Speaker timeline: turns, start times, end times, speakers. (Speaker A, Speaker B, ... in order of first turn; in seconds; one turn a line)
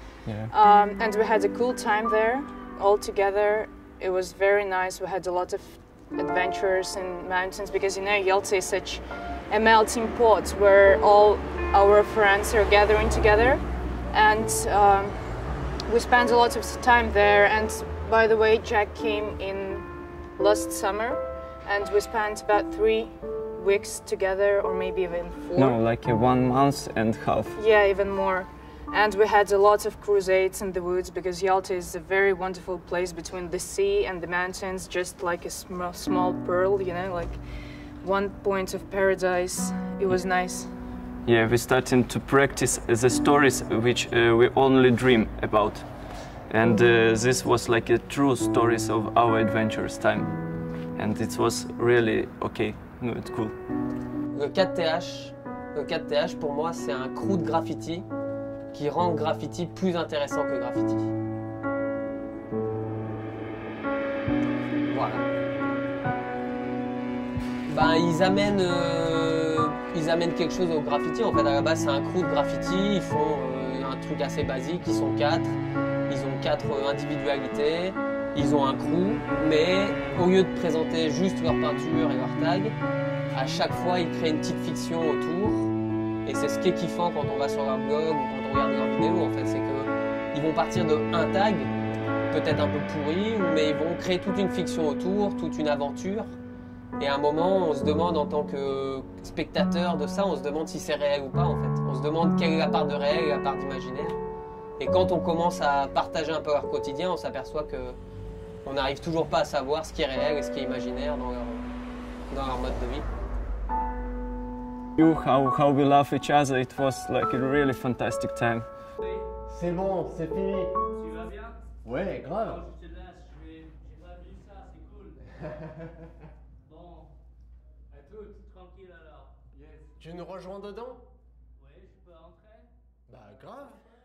Speaker A: 0.5-15.2
Speaker A: 15.9-25.8
Speaker B: 25.6-27.6
Speaker A: 27.5-37.4
Speaker A: 38.0-40.7
Speaker B: 41.2-53.6
Speaker C: 54.3-58.0
Speaker C: 58.7-61.1
Speaker C: 64.9-65.2
Speaker C: 67.7-82.7
Speaker C: 83.3-85.7
Speaker C: 86.2-91.7
Speaker C: 92.3-96.3
Speaker C: 97.0-104.2
Speaker C: 104.8-108.0
Speaker C: 108.6-111.6
Speaker C: 112.3-113.0
Speaker B: 115.0-118.7
Speaker D: 119.5-120.7
Speaker E: 121.0-121.6
Speaker D: 121.8-122.6
Speaker E: 122.4-125.2
Speaker E: 126.7-127.1
Speaker E: 127.9-129.3
Speaker D: 129.6-131.0
Speaker E: 131.6-132.7
Speaker D: 133.1-133.7